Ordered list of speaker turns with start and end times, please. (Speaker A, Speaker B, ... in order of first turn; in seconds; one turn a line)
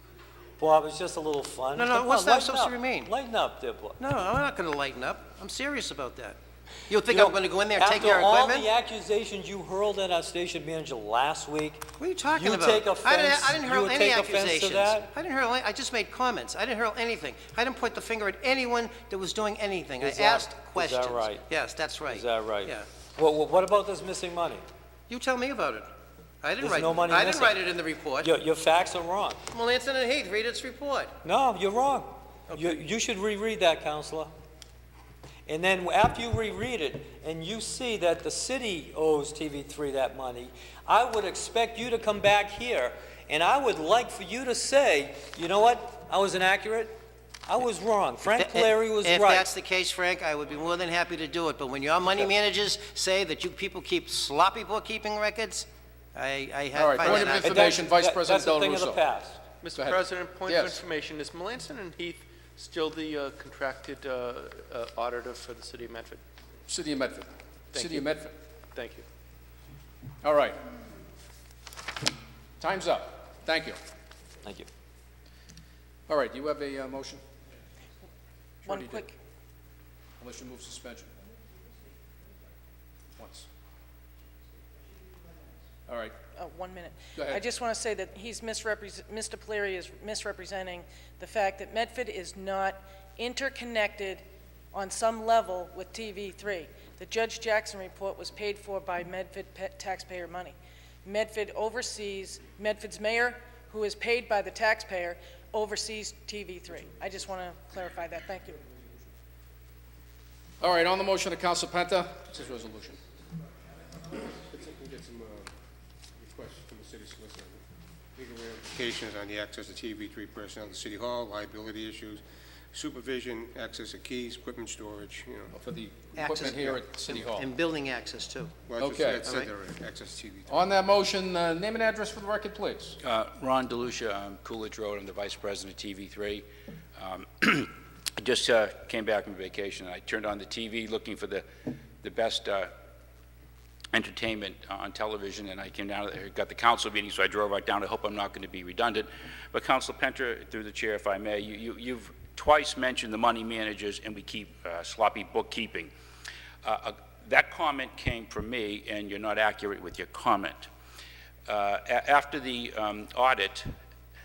Speaker A: 0.6-4.0
Speaker B: 1.7-3.1
Speaker B: 4.0-8.7
Speaker A: 7.0-15.1
Speaker B: 12.0-22.9
Speaker A: 20.0-21.4
Speaker A: 22.1-24.6
Speaker B: 25.1-25.9
Speaker B: 26.4-28.3
Speaker A: 26.6-27.6
Speaker A: 28.2-29.4
Speaker B: 29.5-31.1
Speaker A: 31.2-34.3
Speaker B: 32.5-32.8
Speaker A: 35.5-49.5
Speaker B: 48.3-57.8
Speaker C: 56.7-59.0
Speaker A: 57.2-59.5
Speaker D: 59.6-66.2
Speaker C: 59.7-60.8
Speaker C: 66.7-68.3
Speaker D: 67.7-68.1
Speaker D: 68.7-69.0
Speaker C: 70.2-70.6
Speaker C: 72.6-73.8
Speaker C: 76.1-77.2
Speaker C: 78.7-79.0
Speaker E: 78.7-79.1
Speaker C: 80.2-81.1
Speaker C: 83.2-83.5
Speaker C: 85.9-86.2
Speaker E: 86.3-108.6
Speaker C: 110.6-113.0
Speaker F: 114.2-115.5
Speaker F: 116.1-117.6
Speaker F: 118.2-122.2
Speaker F: 122.7-125.5
Speaker C: 125.5-127.5
Speaker B: 126.1-128.5
Speaker F: 128.7-130.8
Speaker C: 128.8-129.4
Speaker B: 129.2-129.5
Speaker C: 130.5-133.0
Speaker G: 133.0-136.4
Speaker G: 137.0-141.4
Speaker G: 142.0-142.7
Speaker G: 143.9-155.9
Speaker G: 156.6-160.7
Speaker G: 161.5-163.7